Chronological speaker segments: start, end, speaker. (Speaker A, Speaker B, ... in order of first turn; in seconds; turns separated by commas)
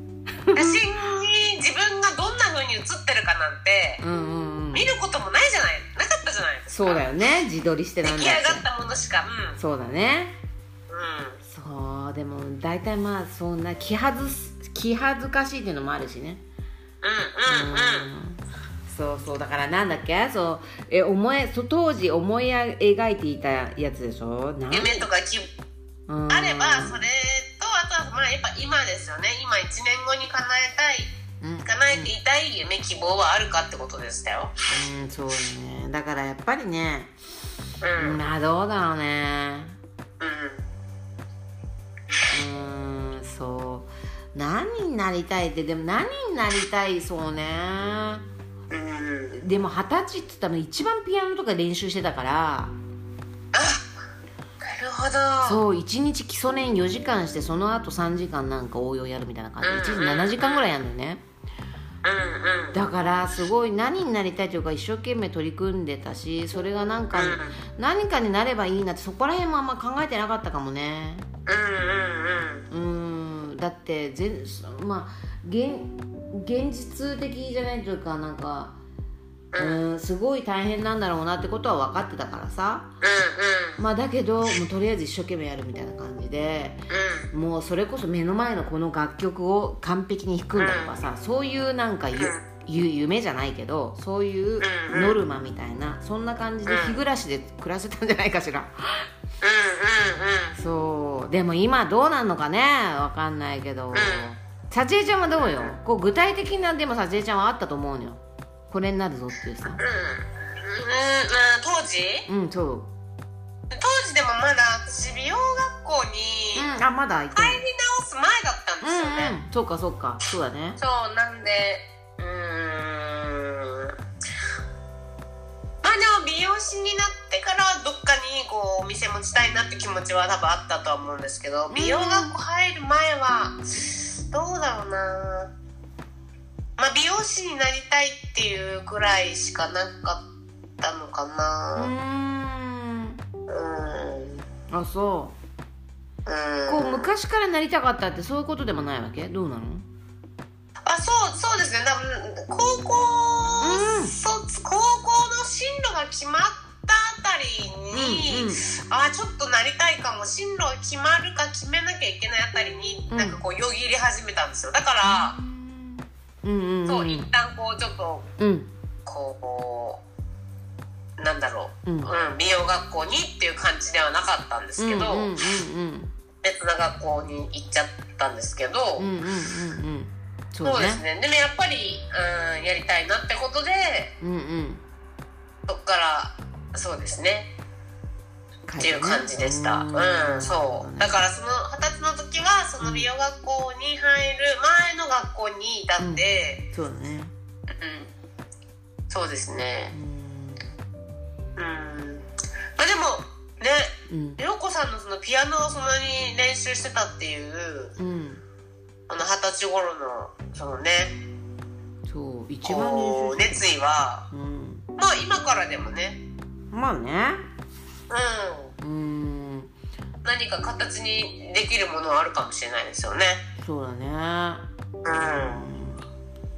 Speaker A: 0.5-0.8, Speaker B: 0.5-4.0, Speaker A: 4.0-4.9, Speaker B: 4.7-7.0, Speaker A: 6.7-8.7, Speaker B: 8.0-9.6, Speaker A: 9.6-10.3, Speaker B: 10.9-11.4, Speaker A: 11.4-16.4, Speaker B: 17.0-18.1, Speaker A: 17.4-25.1, Speaker B: 24.7-25.5, Speaker A: 26.1-27.0, Speaker B: 26.3-31.1, Speaker A: 31.4-32.1, Speaker B: 31.6-34.5, Speaker A: 34.7-37.1, Speaker B: 37.8-38.2, Speaker A: 38.0-39.8, Speaker B: 40.2-40.6, Speaker A: 42.3-48.2, Speaker B: 48.7-49.4, Speaker A: 49.3-52.7, Speaker B: 53.5-53.8, Speaker B: 54.6-55.6, Speaker A: 55.4-61.2, Speaker B: 59.6-60.7, Speaker B: 62.0-62.8, Speaker A: 62.7-71.3, Speaker B: 67.1-67.6, Speaker B: 71.5-72.7, Speaker A: 72.7-78.8, Speaker B: 79.5-79.8, Speaker A: 79.5-82.9, Speaker B: 83.0-83.8, Speaker A: 83.8-99.0, Speaker B: 86.9-87.3, Speaker B: 90.6-91.0, Speaker B: 92.1-92.4, Speaker B: 94.6-95.2, Speaker B: 96.7-97.0, Speaker B: 99.4-100.5, Speaker A: 100.5-109.8, Speaker B: 103.9-104.3, Speaker B: 105.4-105.7, Speaker B: 109.8-112.3, Speaker A: 112.3-112.9, Speaker B: 113.7-116.7, Speaker A: 116.5-117.6, Speaker B: 117.3-119.4, Speaker A: 118.8-120.8, Speaker B: 120.8-124.0, Speaker B: 125.8-135.5, Speaker A: 131.7-132.3, Speaker B: 136.8-140.2, Speaker B: 140.8-141.9, Speaker A: 141.8-143.2, Speaker B: 143.5-144.4, Speaker A: 144.7-145.3, Speaker B: 146.2-147.1, Speaker A: 146.7-149.8, Speaker B: 150.8-165.3, Speaker A: 153.6-154.2, Speaker A: 157.9-158.6, Speaker A: 163.1-163.4, Speaker A: 165.0-167.3, Speaker B: 166.9-168.3, Speaker A: 168.4-168.7, Speaker B: 169.1-170.0, Speaker B: 171.2-175.3, Speaker A: 171.8-172.1, Speaker A: 174.8-176.1, Speaker B: 176.4-179.1, Speaker A: 179.0-181.0, Speaker B: 180.6-184.1, Speaker A: 184.2-184.8, Speaker B: 185.7-187.5, Speaker A: 188.7-191.3, Speaker B: 188.8-196.6, Speaker A: 192.8-193.1, Speaker A: 196.0-197.3, Speaker B: 197.7-198.1, Speaker B: 199.1-199.9, Speaker A: 199.9-200.7, Speaker B: 201.6-202.2, Speaker B: 202.8-207.9, Speaker A: 204.1-204.4, Speaker A: 208.0-208.4, Speaker B: 209.1-211.1, Speaker A: 212.1-213.6, Speaker B: 212.6-214.2, Speaker A: 214.3-214.8, Speaker B: 215.0-216.2, Speaker A: 216.7-217.4, Speaker B: 218.1-218.7, Speaker A: 218.8-219.7, Speaker B: 220.2-223.4, Speaker A: 223.6-224.7, Speaker B: 225.0-225.7, Speaker A: 225.3-226.0